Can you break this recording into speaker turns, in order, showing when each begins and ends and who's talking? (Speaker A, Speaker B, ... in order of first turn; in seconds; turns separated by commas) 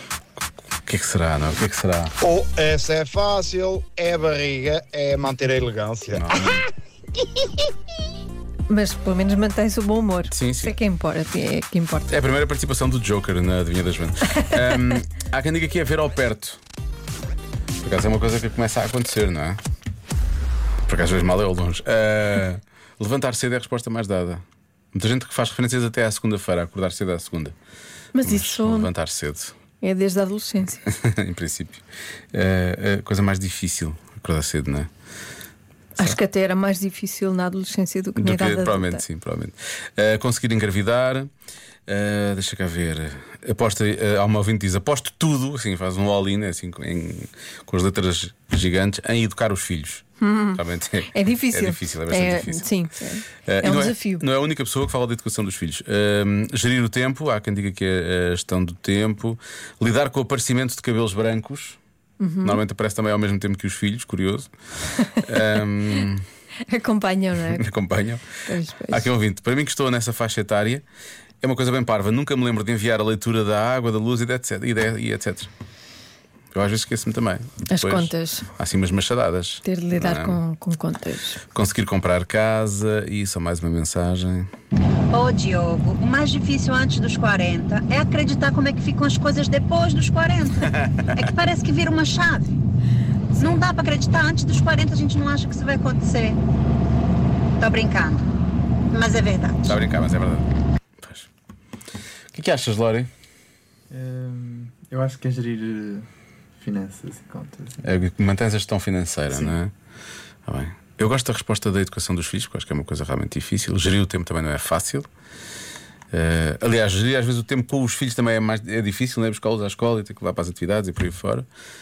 Speaker A: 0.8-2.1, Speaker B: 2.2-6.6, Speaker A: 6.1-6.6, Speaker C: 8.7-12.1, Speaker A: 10.3-10.8, Speaker A: 12.1-16.6, Speaker A: 17.8-19.6, Speaker A: 20.9-27.5, Speaker C: 28.1-28.9, Speaker A: 28.2-29.5, Speaker C: 29.8-30.8, Speaker A: 30.9-34.9, Speaker C: 36.0-39.0, Speaker A: 38.2-41.3, Speaker A: 41.9-52.7, Speaker C: 50.2-54.2, Speaker A: 53.4-61.8, Speaker C: 62.2-62.6, Speaker A: 62.4-64.5, Speaker A: 65.2-66.2, Speaker C: 66.7-67.7, Speaker A: 67.5-68.3, Speaker C: 68.4-69.1, Speaker A: 68.9-70.8, Speaker A: 71.4-75.5, Speaker A: 76.5-80.4, Speaker C: 77.7-78.5, Speaker C: 79.6-81.4, Speaker A: 81.5-84.5, Speaker D: 85.1-92.6, Speaker A: 90.6-91.2, Speaker D: 93.3-96.4, Speaker D: 97.6-98.2, Speaker D: 98.9-99.8, Speaker A: 99.7-100.5, Speaker A: 101.0-101.3, Speaker A: 102.3-103.1, Speaker E: 103.9-107.8, Speaker A: 107.8-109.7, Speaker A: 110.5-115.1, Speaker A: 116.1-121.5